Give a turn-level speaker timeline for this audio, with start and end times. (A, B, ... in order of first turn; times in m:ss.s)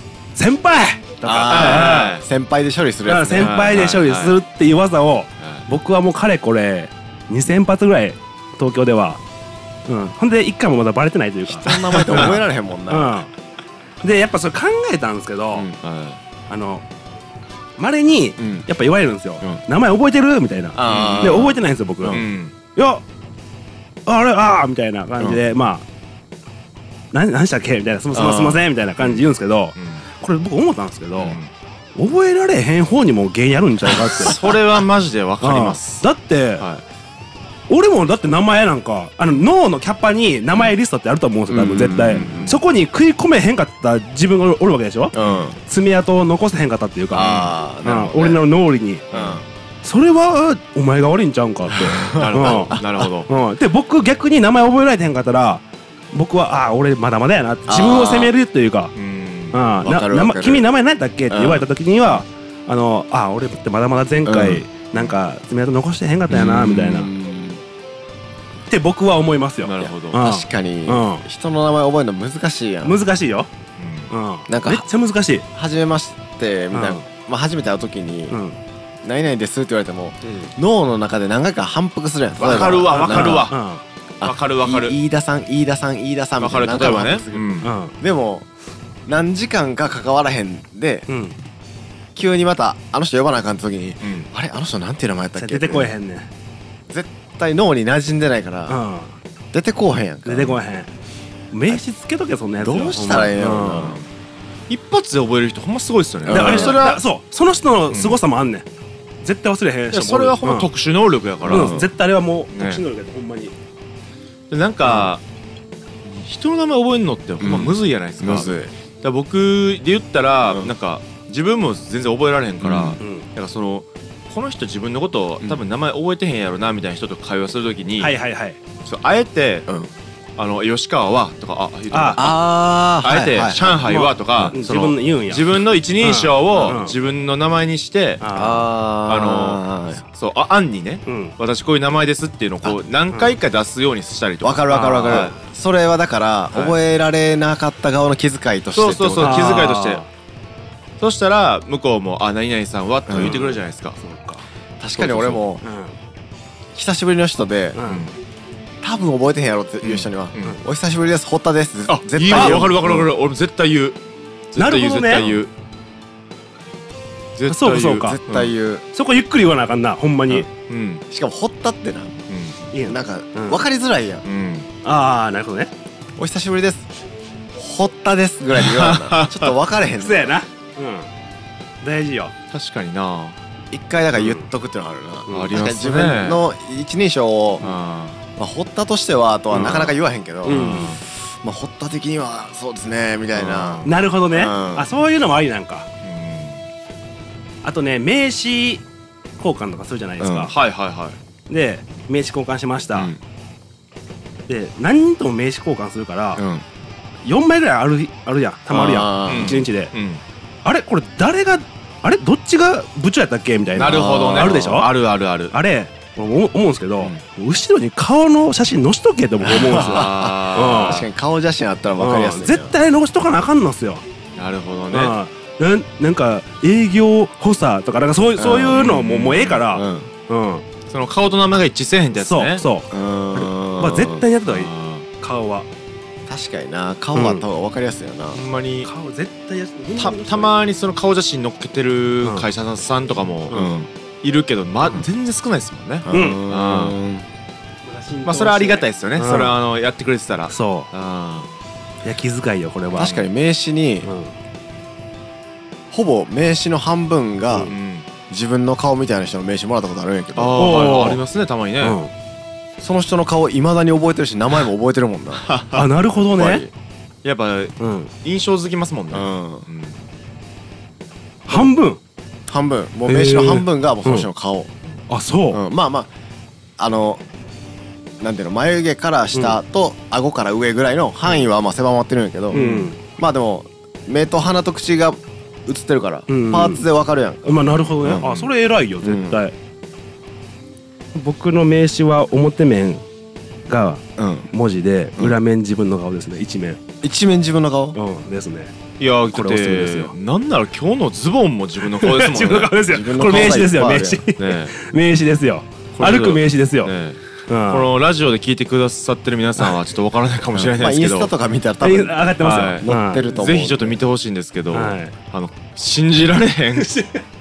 0:00.3-0:02.1 A
0:01.2-0:03.8 B
0:01.5-0:02.2 C
0:03.1-0:09.2 A
0:03.4-0:04.4 C
0:09.9-0:12.4 A
0:11.5-0:13.2 B
0:11.9-0:12.4 C
0:12.9-0:13.3 A
0:14.0-0:15.7 A
0:15.5-0:15.8 B
0:15.8-0:16.2 C
0:16.5-0:16.8 A
0:17.8-0:23.0 A
0:18.4-0:18.7 B
0:20.7-0:22.2 B
0:20.8-0:21.5 C
0:22.1-0:22.5 C
0:24.1-0:25.8 A
0:27.1-0:31.4 A
0:28.1-0:28.7 B
0:29.8-0:30.0 C
0:31.2-0:31.5 C
0:32.0-0:34.4 A
0:34.1-0:34.6 B
0:34.2-0:36.8 C
0:35.4-0:36.6 A
0:37.7-0:45.2 A
0:41.5-0:42.6 B
0:42.2-0:42.6 C
0:45.1-0:45.6 B
0:45.2-0:45.5 C
0:45.7-0:49.1 A
0:47.1-0:48.4 B
0:47.1-0:47.6 C
0:49.1-0:49.4 C
0:49.1-0:49.4 B
0:49.8-0:58.9 A
0:51.7-0:53.1 B
0:52.1-0:53.3 C
0:57.7-0:58.3 B
0:59.0-0:59.6 C
0:59.5-1:07.1 A
0:59.8-1:00.6 B
1:01.3-1:02.2 B
1:04.2-1:04.7 B
1:06.3-1:07.6 B
1:08.7-1:11.2 A
1:09.6-1:10.2 C
1:09.8-1:13.0 B
1:12.8-1:13.5 A
1:13.8-1:14.1 C
1:14.1-1:15.5 A
1:14.5-1:14.8 B
1:15.6-1:18.4 B
1:16.7-1:17.0 A
1:18.3-1:18.6 A
1:19.0-1:23.5 B
1:20.2-1:20.5 C
1:22.4-1:23.6 C
1:22.9-1:23.8 A
1:24.2-1:28.5 B
1:24.2-1:25.0 C
1:26.4-1:27.7 C
1:27.6-1:28.0 A
1:29.1-1:31.1 B
1:31.1-1:31.4 A
1:32.2-1:35.9 B
1:34.0-1:34.3 C
1:35.4-1:36.3 A
1:36.9-1:38.8 B
1:38.7-1:39.2 A
1:39.5-1:40.6 B
1:40.2-1:40.9 A
1:41.5-1:44.0 A
1:42.6-1:44.0 B
1:44.7-1:47.0 C
1:46.3-1:46.9 B
1:46.3-1:48.7 A
1:47.9-1:48.2 C
1:49.2-1:50.7 A
1:49.9-1:51.8 C
1:51.4-1:51.9 B
1:51.5-1:53.6 A
1:52.5-1:52.8 C
1:54.5-1:55.2 C
1:54.8-1:55.1 B
1:56.2-2:08.1 C
1:57.4-1:58.7 B
2:02.6-2:03.0 B
2:03.0-2:03.3 A
2:08.0-2:08.6 A
2:08.8-2:09.7 C
2:10.4-2:12.4 C
2:11.9-2:12.2 A
2:12.2-2:14.6 B
2:13.0-2:18.2 C
2:13.9-2:17.0 A
2:18.2-2:18.6 A
2:18.3-2:20.0 B
2:19.1-2:25.4 C
2:21.1-2:21.3 A
2:23.1-2:23.4 A
2:24.4-2:29.6 B
2:24.7-2:25.3 A
2:26.5-2:26.8 C
2:28.7-2:30.0 C
2:29.2-2:30.1 A
2:31.0-2:34.0 C
2:33.1-2:33.4 B
2:33.2-2:34.4 A
2:34.8-2:35.6 B
2:35.0-2:35.4 C
2:35.6-2:36.0 A
2:36.7-2:37.8 B
2:37.8-2:38.1 A
2:37.8-2:38.1 C
2:38.8-2:43.1 B
2:39.8-2:40.6 C
2:41.9-2:44.0 C
2:42.3-2:42.7 A
2:44.5-2:45.5 C
2:44.6-2:45.3 A
2:47.4-2:48.5 C
2:47.5-2:48.2 A
2:48.0-2:48.8 B
2:48.9-2:50.5 A
2:50.3-2:51.0 C
2:51.1-2:52.2 B
2:52.3-2:52.7 C
2:52.7-2:53.6 A
2:52.9-2:54.2 B
2:54.2-2:54.7 C
2:54.8-2:55.7 A
2:56.2-2:56.9 B
2:57.6-3:00.4 B
2:58.6-2:59.6 C
3:00.0-3:01.1 A
3:01.8-3:02.3 A
3:02.5-3:03.4 C
3:03.7-3:07.8 B
3:04.2-3:04.4 A
3:05.3-3:05.6 A
3:05.3-3:06.4 C
3:07.6-3:08.2 C
3:08.4-3:14.9 B
3:09.5-3:11.0 C
3:10.4-3:11.0 A
3:13.4-3:14.0 C
3:13.8-3:15.9 A
3:16.0-3:16.6 C
3:17.6-3:18.8 A
3:19.4-3:20.5 A
3:20.2-3:20.5 B
3:20.5-3:21.2 C
3:21.5-3:23.1 A
3:22.9-3:23.2 B
3:24.5-3:26.4 A
3:26.4-3:26.6 B
3:27.2-3:29.9 A
3:28.7-3:29.6 B
3:29.3-3:30.2 C
3:30.6-3:34.9 A
3:33.8-3:35.6 C
3:33.8-3:34.7 B
3:35.5-3:41.0 A
3:39.4-3:42.8 B
3:39.7-3:41.1 C
3:42.0-3:44.0 A
3:44.4-3:45.2 C
3:44.9-3:50.6 A
3:48.4-3:48.8 B
3:48.7-3:49.7 C
3:49.7-3:50.1 B
3:50.9-3:52.6 C
3:52.2-3:55.7 A
3:52.9-3:54.2 B
3:54.5-3:55.1 C
3:56.3-3:58.4 B
3:57.2-3:57.5 A
3:58.3-3:58.9 C
3:58.8-4:00.6 A
4:00.0-4:03.6 C
4:03.5-4:03.7 A
4:03.5-4:03.9 B
4:04.2-4:07.0 C
4:06.0-4:07.3 B
4:06.1-4:06.4 A
4:07.8-4:09.6 A
4:08.2-4:11.5 C
4:10.5-4:10.9 A
4:12.0-4:13.2 A
4:12.9-4:14.1 B
4:14.0-4:14.3 A
4:15.9-4:17.7 B
4:17.7-4:18.1 C
4:18.3-4:21.0 B
4:20.4-4:22.0 C
4:20.6-4:21.2 A
4:21.8-4:22.1 A
4:22.8-4:25.5 B
4:25.4-4:25.9 C
4:25.7-4:26.6 A
4:26.3-4:26.7 B
4:27.2-4:30.0 C
4:27.8-4:28.1 A
4:29.1-4:29.7 B
4:31.5-4:32.0 A
4:32.5-4:34.7 B
4:33.1-4:34.3 A
4:35.1-4:35.6 A
4:35.5-4:36.1 B
4:36.8-4:37.2 B
4:38.2-4:48.3 B
4:42.5-4:43.0 A
4:42.5-4:42.8 C
4:46.3-4:46.8 A
4:47.4-4:49.6 A
4:48.1-4:48.5 C
4:49.0-4:49.4 B
4:51.2-4:53.0 A
4:53.7-4:56.8 A
4:54.2-4:54.5 B
4:57.0-4:58.0 B
4:57.9-4:58.8 A
4:59.0-5:02.8 C
4:59.3-5:00.1 A
5:01.9-5:06.9 A
5:02.8-5:04.2 B
5:04.4-5:04.8 C
5:05.9-5:11.3 C
5:07.5-5:07.9 A
5:10.6-5:14.0 B
5:11.8-5:13.3 A
5:12.4-5:16.9 C
5:14.7-5:15.1 A
5:16.8-5:17.2 A